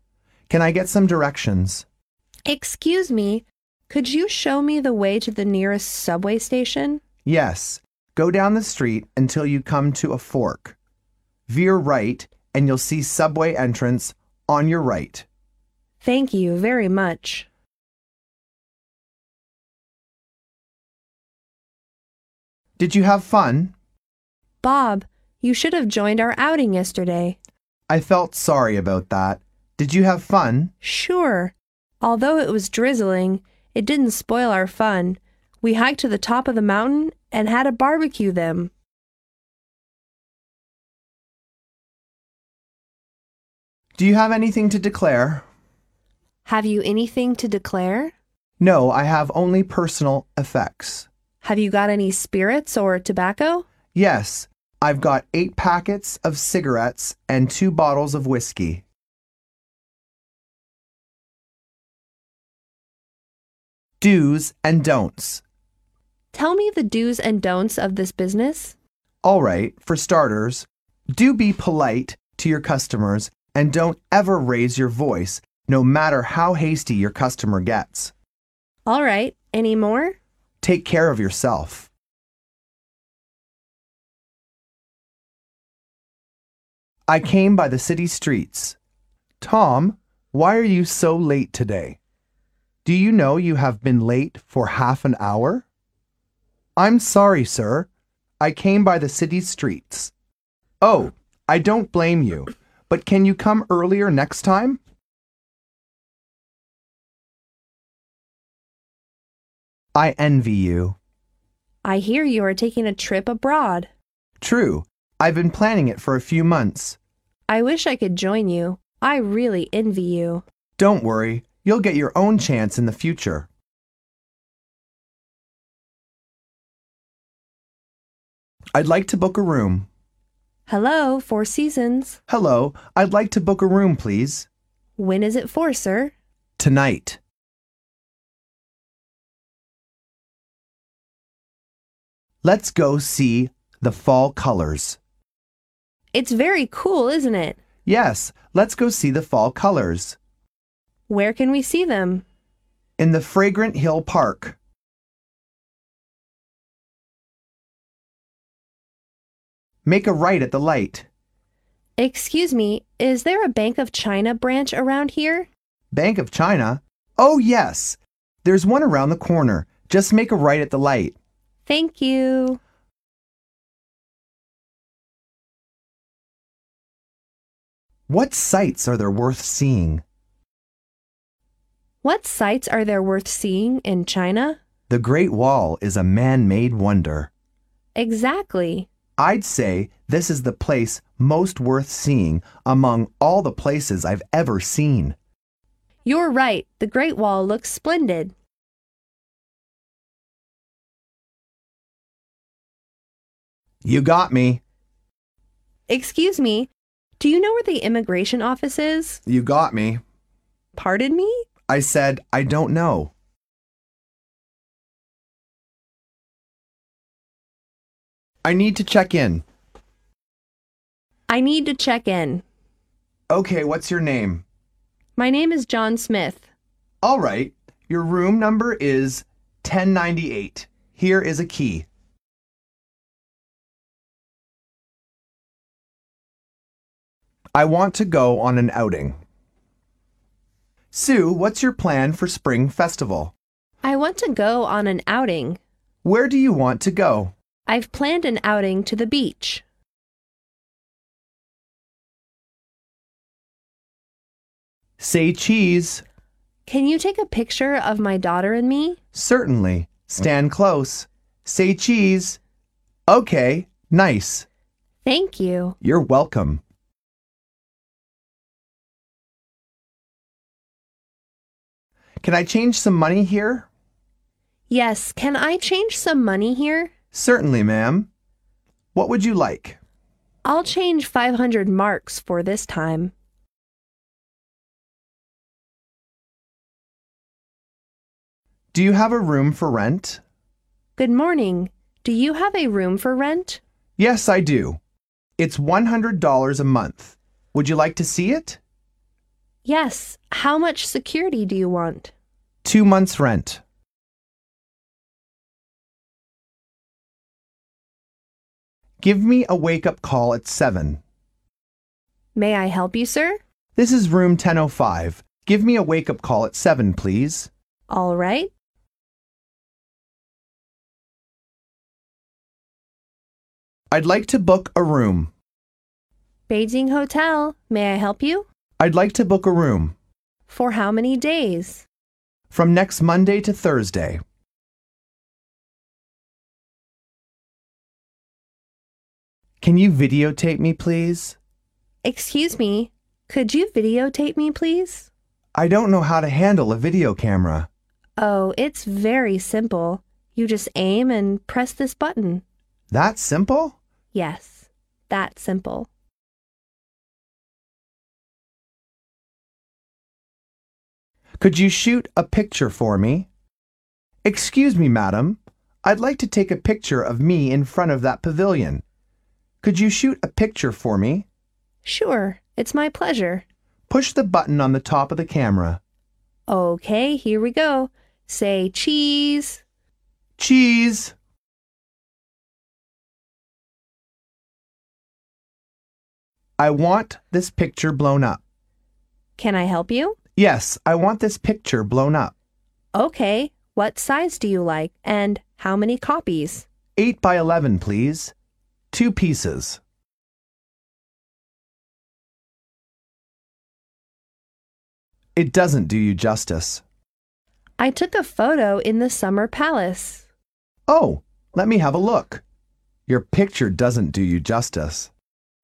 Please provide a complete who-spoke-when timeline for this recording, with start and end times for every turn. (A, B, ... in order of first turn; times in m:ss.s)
0:00.5-0:01.9 A
0:02.5-0:07.0 B
0:07.2-0:10.8 A
0:11.5-0:15.3 A
0:16.0-0:17.5 B
0:22.8-0:23.7 A
0:24.6-0:27.4 B
0:27.9-0:30.7 A
0:30.8-0:38.7 B
0:44.0-0:45.4 A
0:46.5-0:48.1 B
0:48.6-0:51.1 A
0:51.4-0:53.7 B
0:53.9-0:58.8 A
1:04.0-1:05.4 A
1:06.3-1:08.8 B
1:09.2-1:18.1 A
1:18.9-1:20.2 B
1:20.6-1:21.9 A
1:27.1-1:28.8 A
1:29.4-1:32.0 A
1:32.8-1:35.7 A
1:36.8-1:37.9 A
1:38.4-1:40.1 A
1:40.8-1:44.8 A
1:50.0-1:51.0 A
1:51.8-1:53.9 B
1:54.4-1:57.0 A
1:57.5-2:00.4 B
2:00.8-2:03.5 A
2:08.7-2:09.9 A
2:10.7-2:12.2 B
2:12.3-2:14.5 A
2:15.0-2:16.1 B
2:16.6-2:17.2 A
2:22.4-2:25.0 A
2:26.1-2:27.6 B
2:27.8-2:30.2 A
2:31.1-2:32.2 B
2:33.0-2:34.6 A
2:39.8-2:41.1 A
2:42.0-2:45.5 B
2:45.9-2:51.2 A
2:51.7-2:52.6 B
2:58.1-3:00.0 A
3:02.0-3:04.6 B
3:04.9-3:07.3 A
3:08.0-3:08.9 B
3:09.2-3:15.2 A
3:16.1-3:18.3 B
3:23.8-3:24.6 A
3:25.9-3:29.2 B
3:29.3-3:30.0 A
3:30.8-3:31.5 B
3:31.7-3:33.1 A
3:38.4-3:39.4 A
3:41.3-3:42.4 B
3:43.3-3:44.4 A
3:45.2-3:46.5 B
3:47.0-3:51.9 A
3:57.5-3:59.2 A
4:00.9-4:03.3 A
4:03.8-4:05.6 B
4:06.0-4:07.3 A
4:07.7-4:09.6 B
4:15.0-4:16.0 A
4:16.7-4:19.0 B
4:19.1-4:22.4 A
4:23.1-4:24.5 A
4:25.0-4:25.8 B
4:25.8-4:26.6 A
4:32.2-4:33.7 A
4:34.7-4:36.9 B
4:37.1-4:38.1 A
4:38.9-4:39.8 A
4:40.4-4:43.1 B
4:48.7-4:50.2 A
4:51.0-4:53.6 B
4:54.0-4:54.8 A
4:55.4-4:58.6 A
4:59.6-5:02.1 B
5:02.6-5:03.6 A
5:09.0-5:11.0 A
5:12.4-5:13.4 B
5:13.8-5:17.5 A
5:17.9-5:18.5 B
5:23.9-5:25.3 A
5:26.5-5:28.5 B
5:28.8-5:30.0 A
5:30.5-5:31.8 B
5:32.5-5:34.2 A
5:39.6-5:41.4 A
5:42.0-5:45.1 B
5:45.6-5:47.7 A
5:48.2-5:52.4 B
5:52.9-5:53.8 A
5:54.1-5:55.9 B
6:01.4-6:03.3 A
6:04.2-6:08.8 A
6:09.6-6:11.3 A
6:11.8-6:13.4 B
6:13.9-6:15.8 A
6:16.5-6:19.6 B
6:20.4-6:21.1 A
6:26.6-6:28.4 A
6:29.4-6:30.2 B
6:30.4-6:32.3 A
6:32.9-6:36.7 B
6:37.0-6:38.3 A
6:38.9-6:39.8 A
6:45.4-6:46.8 A
6:47.8-6:50.3 B
6:50.9-6:52.4 A
6:53.1-6:55.1 A